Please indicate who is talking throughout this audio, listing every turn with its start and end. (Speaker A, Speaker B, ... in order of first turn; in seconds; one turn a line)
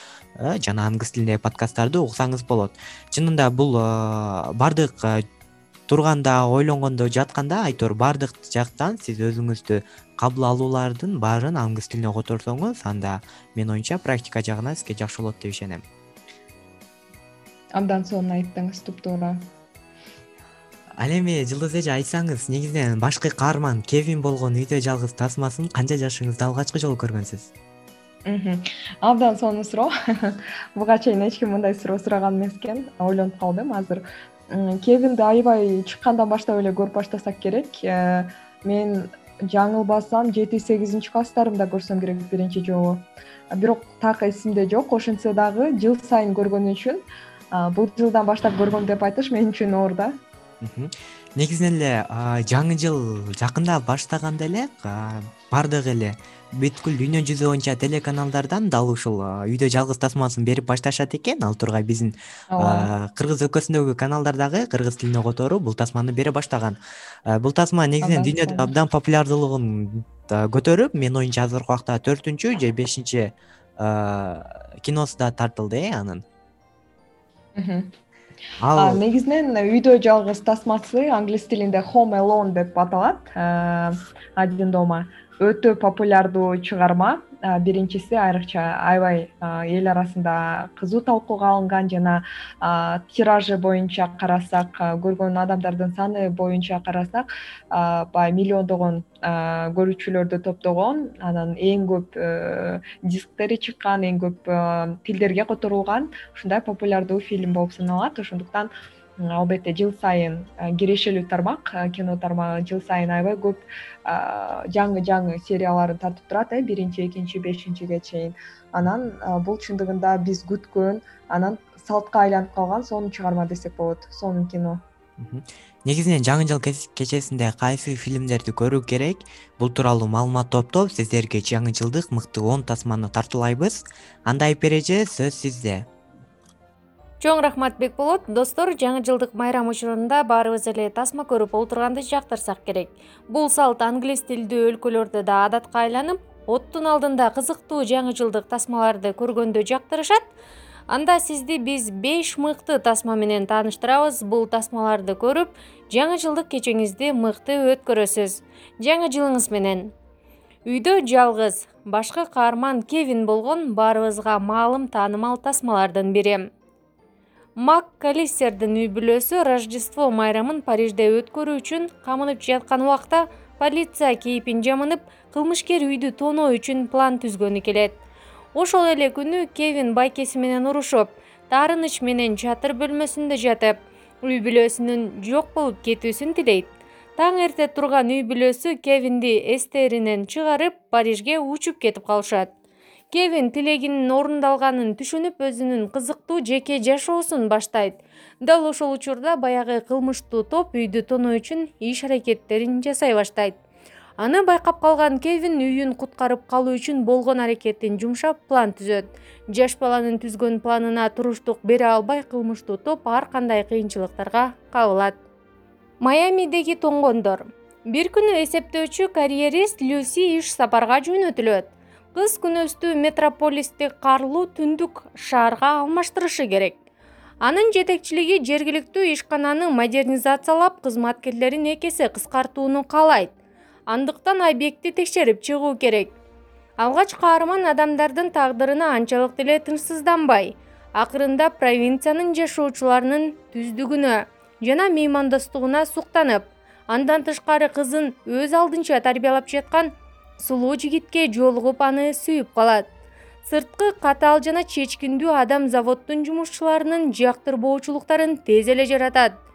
Speaker A: 0.4-5.2
Speaker A: 5.9-15.8
Speaker B: 17.8-19.5
Speaker A: 21.0-27.5
Speaker B: 28.3-50.2
Speaker A: 50.6-76.2
Speaker B: 62.5-62.9
Speaker B: 68.0-68.7
Speaker B: 77.6-77.9
Speaker A: 78.6-79.0
Speaker B: 78.8-124.8
Speaker A: 125.2-135.9
Speaker C: 137.2-150.2
Speaker C: 150.9-159.9
Speaker C: 160.7-166.5
Speaker C: 167.6-178.0
Speaker C: 178.6-192.5
Speaker C: 193.1-203.6
Speaker C: 204.2-215.2
Speaker C: 216.0-226.8
Speaker C: 227.4-233.3
Speaker C: 233.9-236.1
Speaker C: 236.8-252.8
Speaker C: 253.5-259.3